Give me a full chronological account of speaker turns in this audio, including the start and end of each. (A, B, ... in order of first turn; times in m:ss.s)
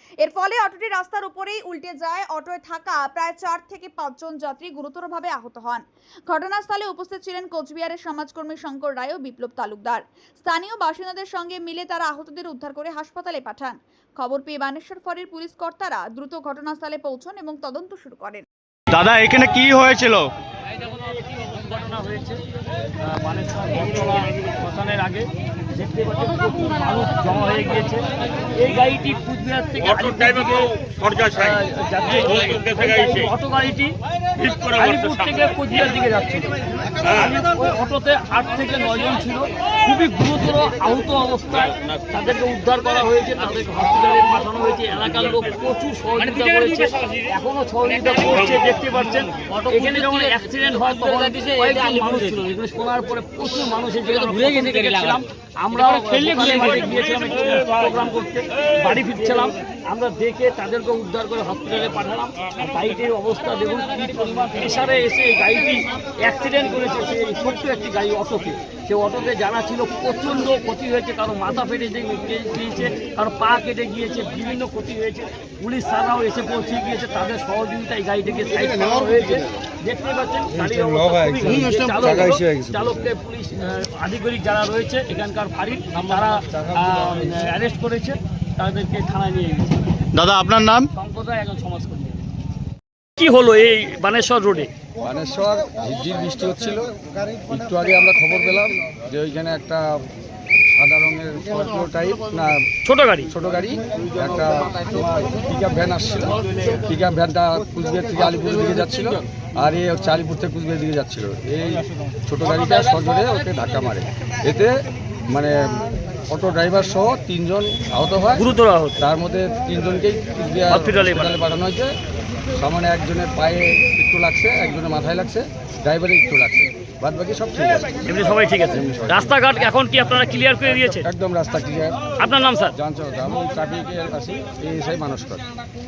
0:00.2-0:18.4 A
0:18.9-0:20.3 B
0:20.8-0:22.4 C
0:23.0-0:28.0 C
0:28.6-1:29.8 C
1:21.8-1:22.4 B
1:30.1-1:30.9 B
1:30.9-1:32.3 C
1:33.2-1:34.7 C
1:35.0-1:40.0 D
1:40.8-1:42.6 D
1:42.8-1:43.3 C
1:43.3-1:58.5 D
1:46.3-1:46.8 C
1:58.4-1:59.0 C
1:59.0-2:01.9 D
2:00.7-2:01.4 C
2:02.5-2:09.4 D
2:08.1-2:11.0 C
2:10.9-2:12.0 D
2:12.2-2:12.7 C
2:12.7-2:15.4 D